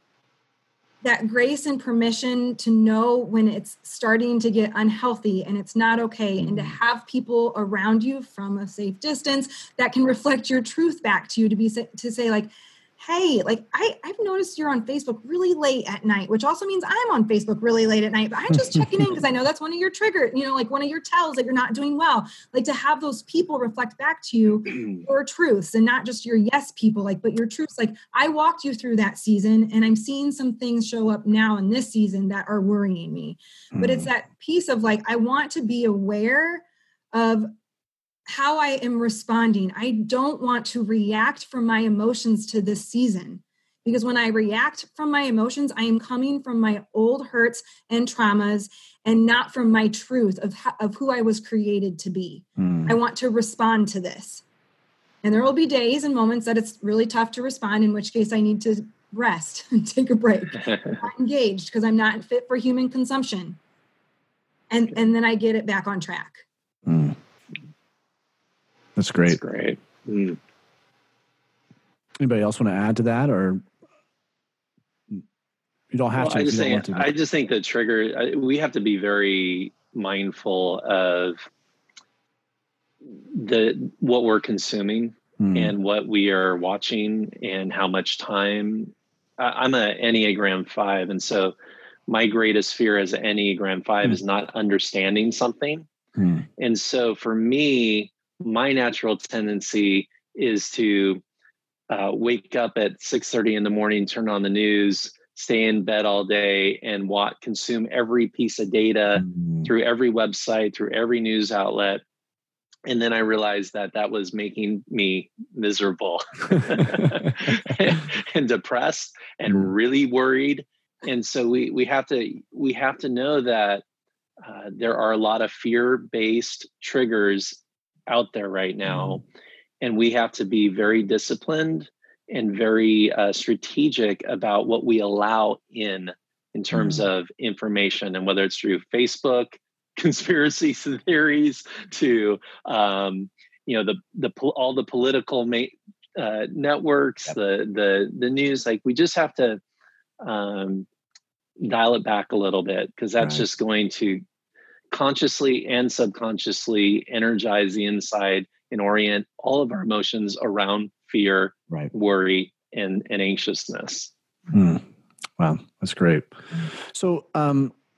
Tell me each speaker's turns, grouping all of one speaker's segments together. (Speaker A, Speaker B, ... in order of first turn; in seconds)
Speaker A: 1.0-37.5, 38.3-54.4, 55.2-63.6, 64.7-66.4
Speaker B: 6.4-6.7, 18.7-19.1, 33.7-34.1, 52.6-53.0, 66.8-67.2, 69.0-69.4, 72.2-73.6, 75.9-77.1, 85.4-85.7, 96.2-96.5, 109.2-109.7, 128.8-129.2, 136.7-137.1, 153.2-153.4, 164.5-164.8, 165.4-167.7
Speaker C: 69.2-70.4, 76.1-81.4, 83.3-91.5, 92.1-95.9, 96.6-101.2, 101.9-112.0, 112.8-123.8, 124.4-129.2, 129.8-149.6, 150.2-150.8, 151.6-154.2, 154.9-164.1